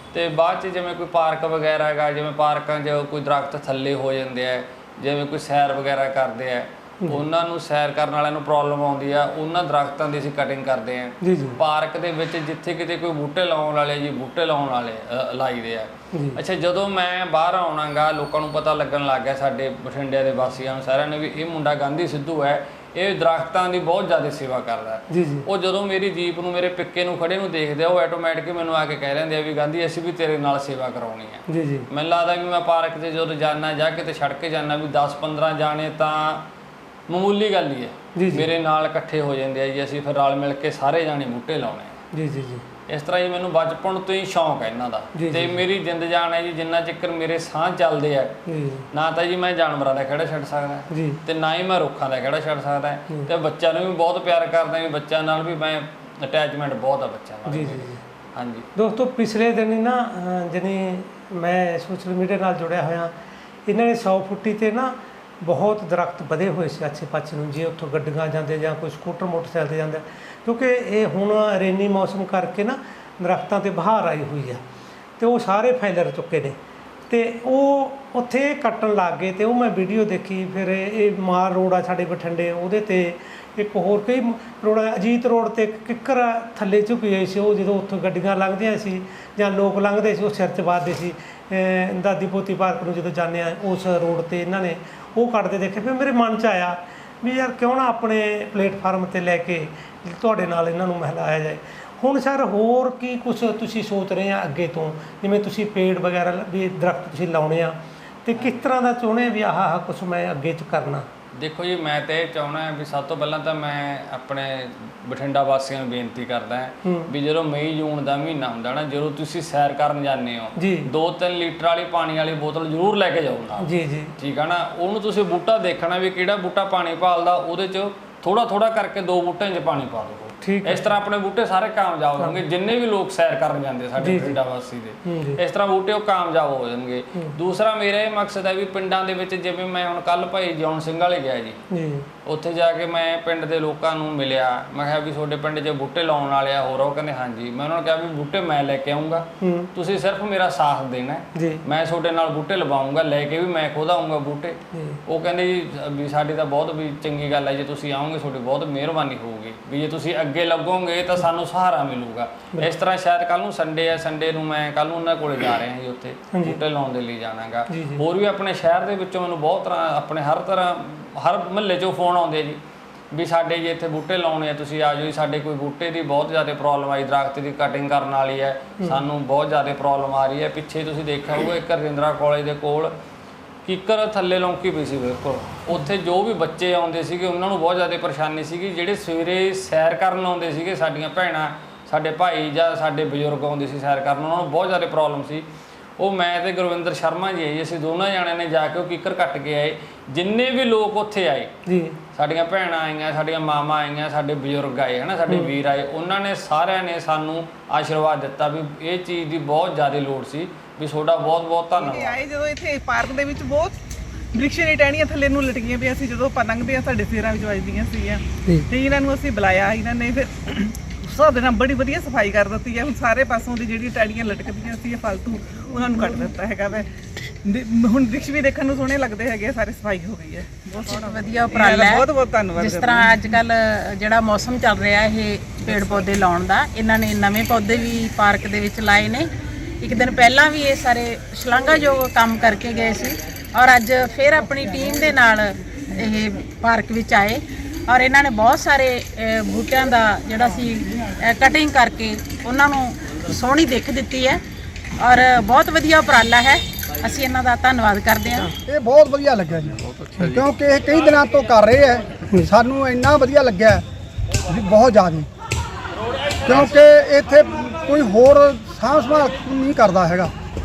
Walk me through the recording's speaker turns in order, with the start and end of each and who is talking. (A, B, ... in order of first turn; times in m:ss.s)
0:00.1-0:36.5 A
0:11.2-0:11.6 B
0:16.1-0:16.4 B
0:25.1-0:25.5 B
0:31.5-0:31.9 B
0:37.1-0:42.0 A
0:38.2-0:38.5 B
0:42.1-0:42.6 B
0:42.9-0:48.4 A
0:45.2-0:45.6 B
0:48.5-0:48.9 B
0:48.9-0:58.7 A
0:50.9-0:51.2 B
0:57.5-0:58.0 B
0:58.8-1:03.1 B
1:03.7-1:14.6 B
1:15.2-1:16.6 B
1:17.1-1:51.1 B
1:51.4-2:21.6 A
1:56.8-1:57.1 B
2:00.6-2:00.9 B
2:03.6-2:04.1 B
2:10.4-2:10.8 B
2:14.0-2:14.4 B
2:15.0-2:15.4 B
2:21.7-2:22.1 B
2:22.2-2:52.6 A
2:29.4-2:29.7 B
2:31.4-2:31.6 B
2:34.7-2:35.0 B
2:46.3-2:46.6 B
2:47.7-2:48.0 B
2:53.1-3:02.9 A
3:03.6-3:15.5 A
3:16.0-3:21.5 A
3:21.7-3:22.0 B
3:22.1-3:32.2 A
3:31.7-3:33.8 C
3:34.3-3:46.9 C
3:47.4-3:53.3 C
3:50.9-3:59.3 D
3:55.7-3:56.0 C
3:59.8-4:14.4 D
4:15.0-4:18.5 D
4:18.6-4:23.8 E
4:24.5-4:25.3 E
4:26.4-4:30.3 E